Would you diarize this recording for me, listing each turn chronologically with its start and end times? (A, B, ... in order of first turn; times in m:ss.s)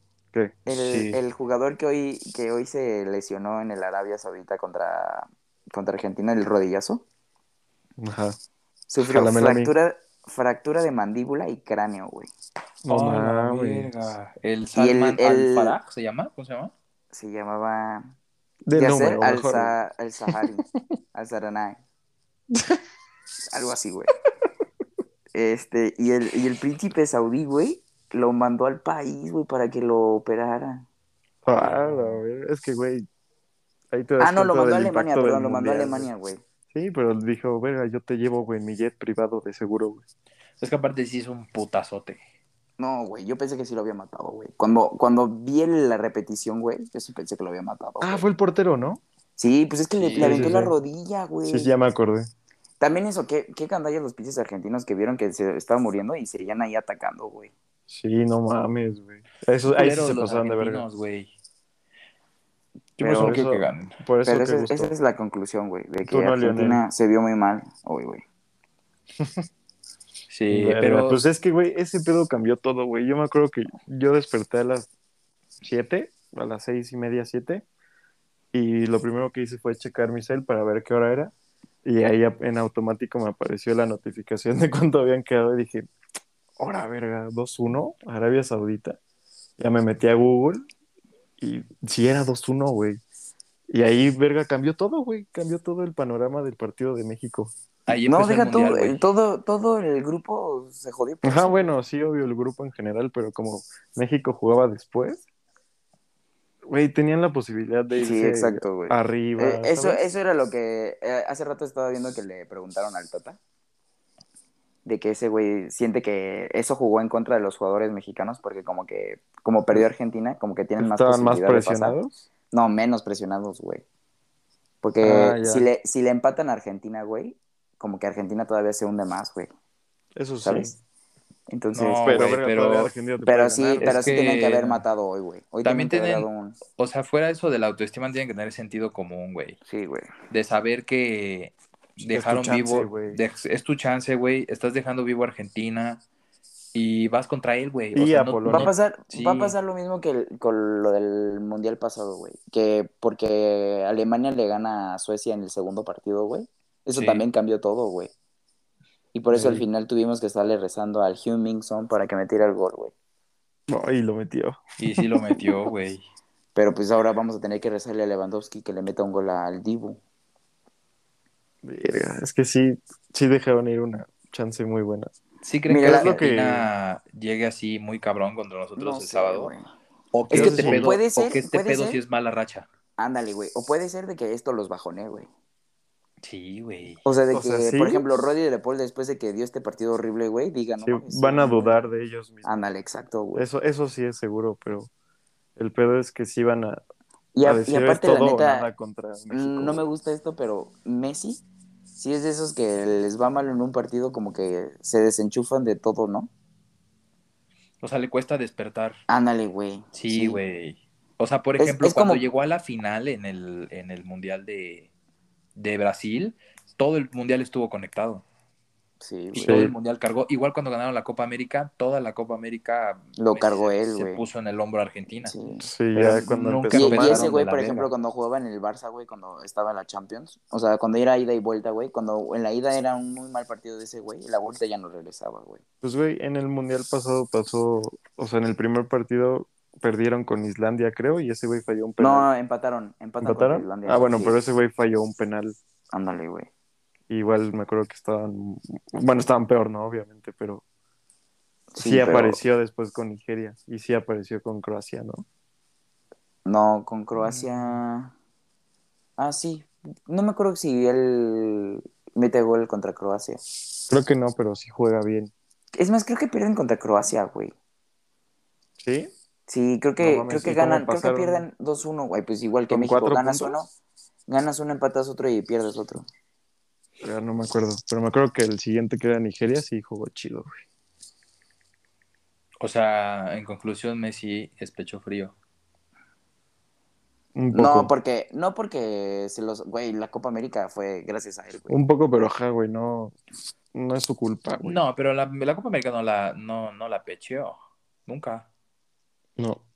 0:00.3-0:01.2 A
0:00.6-0:07.0 B
0:08.0-0:08.4 A
0:08.9-0:12.3 B
0:09.0-0:09.7 A
0:12.8-0:13.9 A
0:12.9-0:16.7 C
0:14.7-0:15.8 B
0:17.1-0:18.1 B
0:18.7-0:19.8 A
0:18.7-0:21.8 B
0:22.5-0:22.8 A
0:23.5-0:24.1 B
0:25.3-0:30.8 B
0:31.4-0:33.1 A
0:31.5-0:32.2 C
0:33.9-0:36.1 A
0:34.2-0:36.4 B
0:36.7-0:40.0 A
0:40.6-0:42.2 C
0:42.8-0:48.3 B
0:48.0-0:49.0 A
0:49.4-0:51.7 B
0:50.0-0:50.5 C
0:50.2-0:50.7 A
0:51.4-0:52.3 A
0:52.8-0:57.5 B
0:57.9-1:00.8 A
0:59.7-1:01.3 C
1:03.0-1:04.0 C
1:03.0-1:04.9 A
1:03.0-1:03.3 B
1:04.2-1:08.2 B
1:06.0-1:06.8 A
1:09.2-1:09.5 A
1:10.3-1:11.2 C
1:10.5-1:14.9 A
1:15.6-1:17.6 A
1:18.5-1:21.3 A
1:21.8-1:25.9 A
1:26.6-1:29.0 A
1:29.6-1:30.7 A
1:31.4-1:33.0 A
1:33.7-1:37.5 A
1:37.9-1:39.0 C
1:38.0-1:41.7 B
1:41.2-1:45.2 A
1:46.7-1:50.0 A
1:47.9-1:53.4 B
1:54.8-2:02.0 B
2:00.8-2:02.2 A
2:02.5-2:03.8 B
2:04.8-2:09.5 B
2:05.0-2:05.7 A
2:10.2-2:10.7 A
2:10.4-2:10.7 B
2:11.5-2:12.1 B
2:11.7-2:12.9 C
2:12.0-2:14.2 A
2:13.2-2:16.6 B
2:13.8-2:14.8 C
2:15.6-2:19.6 C
2:19.7-2:20.1 B
2:20.3-2:26.0 C
2:22.1-2:23.2 A
2:26.7-2:29.5 C
2:27.9-2:28.7 A
2:28.5-2:38.1 B
2:36.9-2:37.2 C
2:39.1-2:42.9 B
2:39.3-2:39.6 A
2:43.7-2:45.6 A
2:44.8-2:46.0 C
2:46.5-2:50.0 B
2:51.6-2:55.1 A
2:55.4-2:59.5 C
2:55.7-2:56.2 B
2:55.8-2:56.7 A
2:58.8-2:59.7 B
3:00.1-3:02.7 C
3:00.3-3:01.0 A
3:00.3-3:02.0 B
3:03.0-3:05.3 B
3:06.2-3:07.0 C
3:07.0-3:11.8 B
3:07.3-3:08.0 A
3:10.8-3:12.4 A
3:12.4-3:13.4 B
3:13.3-3:14.9 A
3:15.6-3:16.8 A
3:17.3-3:18.7 B
3:17.4-3:19.8 A
3:19.3-3:21.4 B
3:22.0-3:26.3 B
3:27.8-3:29.0 C
3:29.1-3:30.4 B
3:29.9-3:34.9 C
3:31.6-3:32.2 B
3:35.6-3:38.2 C
3:39.0-3:39.7 B
3:39.3-3:45.3 C
3:39.4-3:39.7 A
3:43.2-3:44.2 B
3:45.2-3:45.7 B
3:45.6-3:47.3 A
3:45.9-3:47.9 C
3:46.7-3:55.6 B
3:55.8-4:02.3 A
4:02.0-4:04.4 B
4:03.2-4:05.6 A
4:05.9-4:06.5 B
4:07.1-4:10.6 A
4:11.7-4:12.4 B
4:11.8-4:15.2 A
4:16.4-4:18.1 B
4:19.2-4:23.4 B
4:23.9-4:25.3 A
4:25.7-4:27.5 B
4:28.8-4:29.1 A
4:29.5-4:33.7 B
4:30.0-4:31.4 A
4:32.7-4:33.6 A
4:34.3-4:36.1 B
4:37.0-4:40.6 A
4:42.6-4:45.3 C
4:47.3-4:47.9 A
4:47.5-4:51.8 B
4:51.7-4:53.2 A
4:53.7-4:54.8 A
4:54.6-4:58.5 C
4:59.4-4:59.6 A